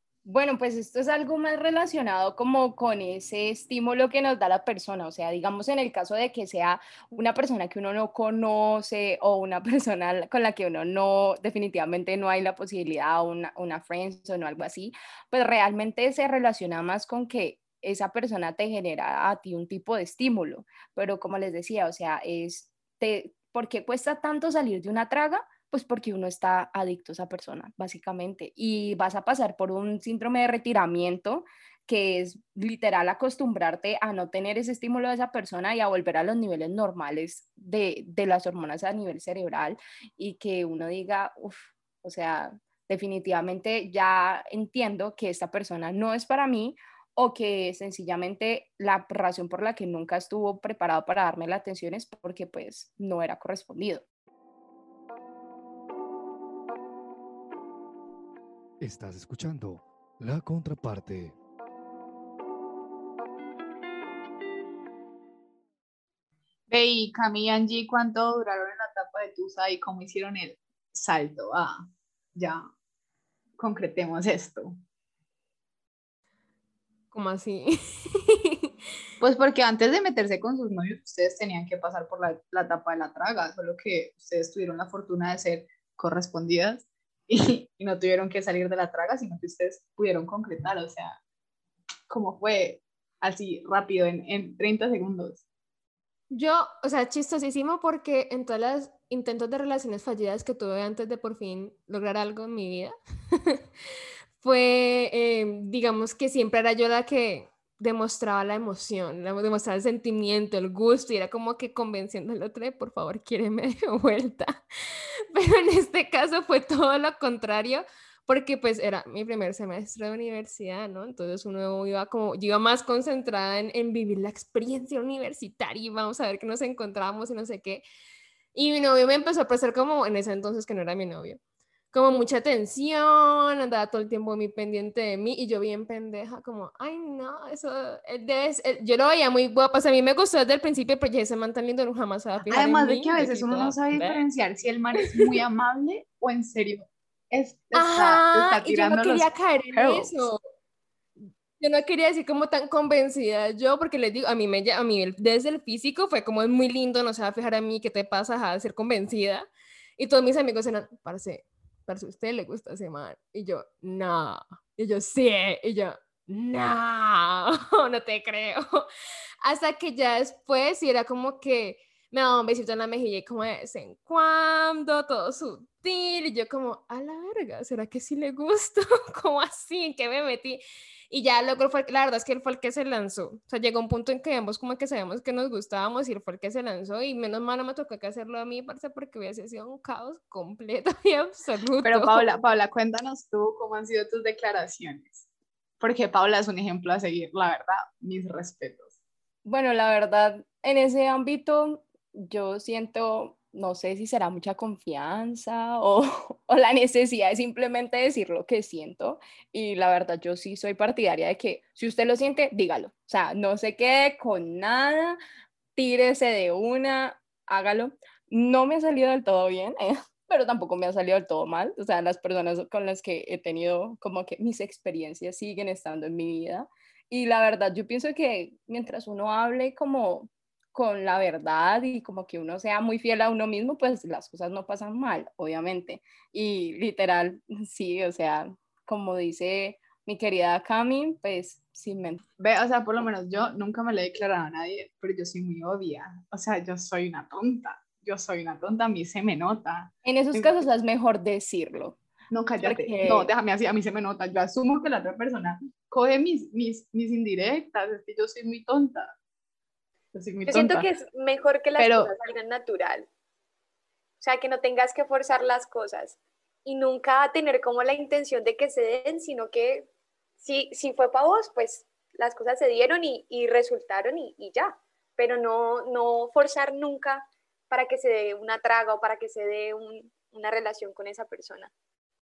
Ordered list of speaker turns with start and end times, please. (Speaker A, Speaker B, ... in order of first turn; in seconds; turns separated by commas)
Speaker A: 0.2-54.0, Speaker B: 58.8-61.4, Speaker C: 66.7-71.8, Speaker C: 72.3-72.6, Speaker C: 73.6-74.8, Speaker D: 77.1-78.7, Speaker C: 79.2-91.2, Speaker C: 92.1-95.4, Speaker D: 96.3-103.6, Speaker D: 104.4-114.6, Speaker D: 115.3-127.8, Speaker D: 128.5-131.4, Speaker D: 131.9-144.2, Speaker C: 142.5-150.2, Speaker D: 145.1-145.4, Speaker D: 147.7-150.4, Speaker D: 151.2-159.4, Speaker D: 160.0-168.8, Speaker D: 169.4-192.2, Speaker C: 191.8-195.3, Speaker C: 195.8-198.9, Speaker A: 199.4-215.2, Speaker A: 215.8-242.2, Speaker C: 242.4-250.5, Speaker A: 250.0-252.0, Speaker C: 252.3-259.1, Speaker A: 252.6-253.3, Speaker C: 260.1-260.9, Speaker E: 260.5-263.1, Speaker C: 261.8-262.1, Speaker E: 264.2-269.9, Speaker E: 270.4-281.7